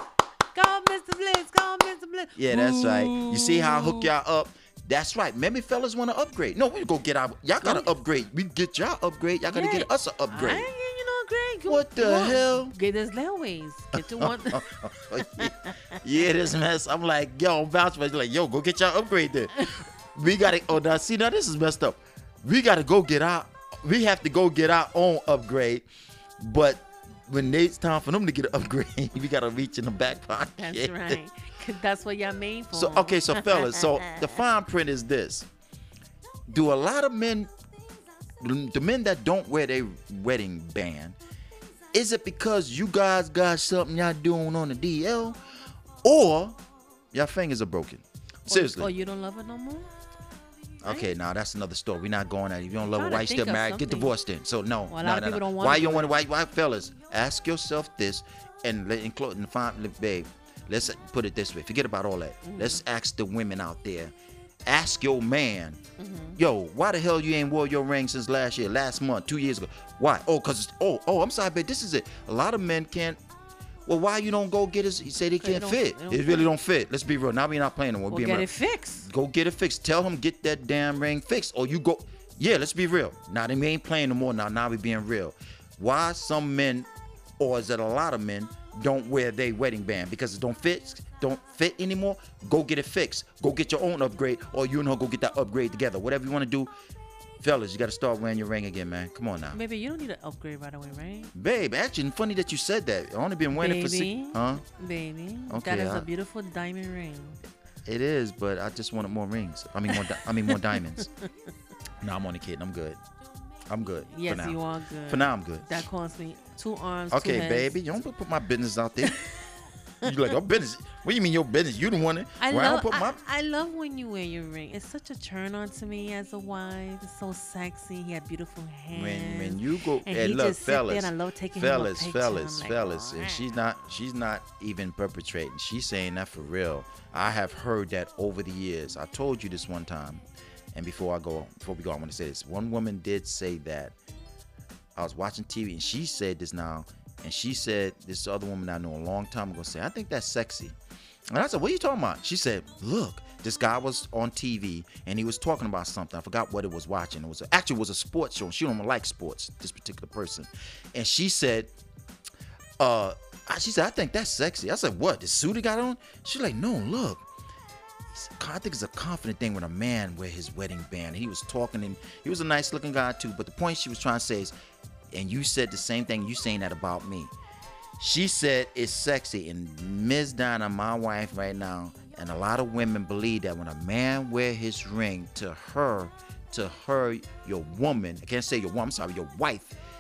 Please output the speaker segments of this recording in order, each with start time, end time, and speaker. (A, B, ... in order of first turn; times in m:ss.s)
0:00.5-0:04.1 A
0:02.4-0:10.7 B
0:07.6-0:08.0 A
0:09.5-0:16.0 A
0:11.7-0:12.8 B
0:13.9-0:25.9 B
0:26.4-0:31.2 B
0:30.5-0:34.4 A
0:32.7-0:35.5 B
0:36.5-0:37.5 B
0:38.4-0:41.2 B
0:41.9-0:45.4 B
0:46.0-0:46.6 B
0:47.1-0:48.9 B
0:48.5-0:49.9 A
0:50.8-1:04.1 B
0:50.8-0:51.2 A
0:52.8-0:54.1 A
0:54.9-0:56.2 A
1:02.4-1:02.8 A
1:04.7-1:05.8 B
1:06.0-1:06.4 A
1:06.4-1:13.2 B
1:13.9-1:26.9 B
1:15.4-1:16.5 A
1:18.1-1:19.1 A
1:27.4-1:36.7 B
1:37.4-1:39.6 B
1:39.5-1:41.3 A
1:41.3-1:44.6 B
1:43.5-1:47.4 A
1:45.5-1:46.1 B
1:47.9-1:51.1 B
1:49.9-1:51.3 A
1:52.0-1:53.0 B
1:53.7-1:55.8 B
1:54.1-1:57.8 A
1:57.1-1:59.2 B
1:59.0-1:59.3 A
2:00.0-2:03.2 B
2:00.1-2:00.4 A
2:02.4-2:13.7 A
2:08.9-2:20.2 B
2:20.8-2:24.0 B
2:25.0-2:30.8 B
2:31.3-2:41.7 B
2:42.8-2:47.2 B
2:48.1-2:54.5 B
2:55.1-2:57.3 B
2:58.0-3:09.8 B